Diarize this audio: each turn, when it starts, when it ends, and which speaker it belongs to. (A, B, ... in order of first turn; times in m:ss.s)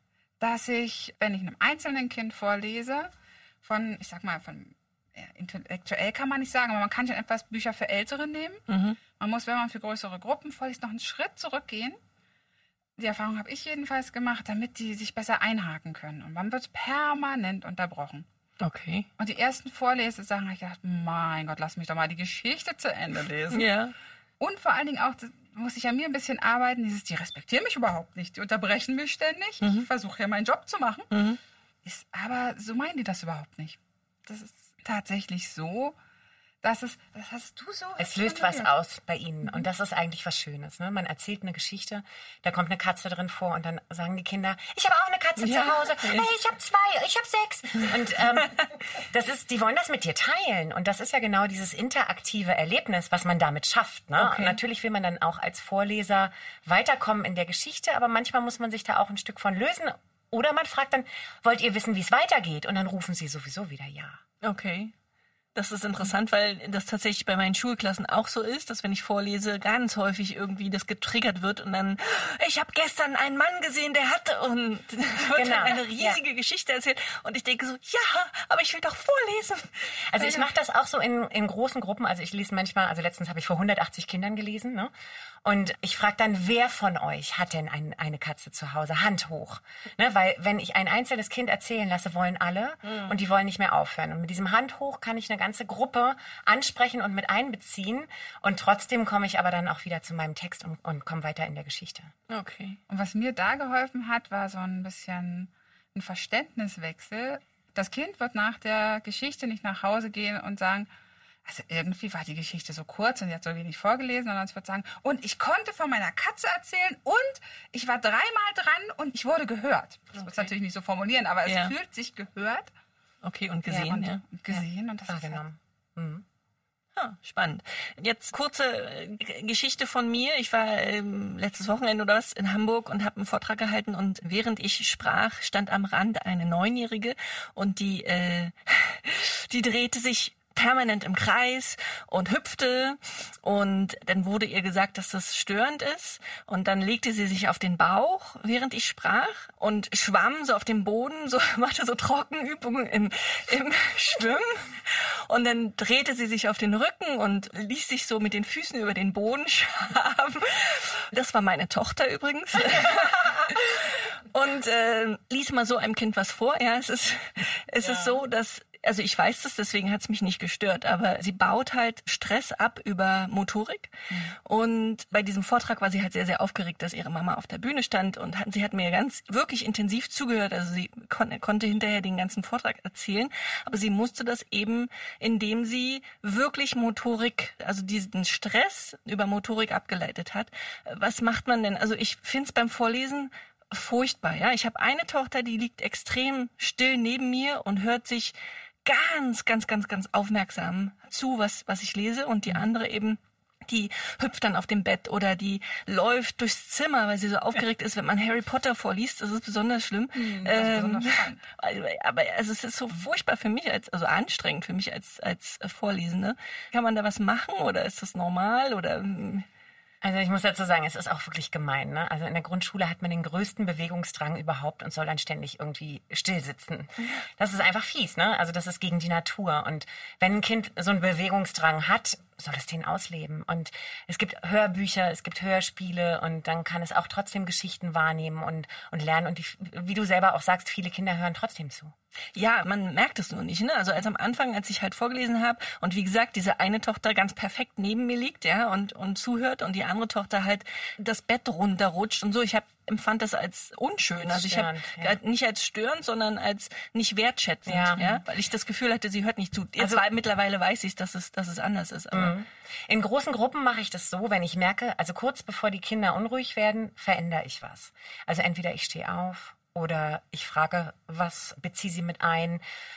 0:00.4-0:03.1 A
0:03.6-0:08.6 A
0:08.7-0:09.0 B
0:09.2-0:12.0 A
0:13.0-0:18.3 A
0:18.6-0:19.1 B
0:19.2-0:23.6 A
0:23.5-0:23.9 B
0:24.4-0:31.1 A
0:29.6-0:29.9 B
0:31.1-0:31.4 B
0:31.8-0:36.0 A
0:36.6-0:38.7 A
0:38.0-1:04.2 C
0:45.4-0:46.3 B
0:54.2-0:54.6 B
1:04.4-1:04.9 B
1:05.5-1:20.5 B
1:15.3-1:16.2 C
1:20.1-1:24.9 C
1:25.4-1:42.1 C
1:42.3-1:42.8 B
1:42.9-1:50.9 A
1:51.4-2:02.7 A
2:00.2-2:00.5 B
2:01.4-2:01.7 B
2:03.2-2:04.2 B
2:03.8-2:05.4 A
2:05.1-2:06.2 C
2:07.0-3:39.4 B
2:47.9-2:48.2 A
3:30.1-3:31.4 A
3:40.0-4:01.9 C
4:02.3-4:22.4 B
4:14.1-4:15.2 C
4:17.7-4:18.2 C
4:22.1-4:32.6 C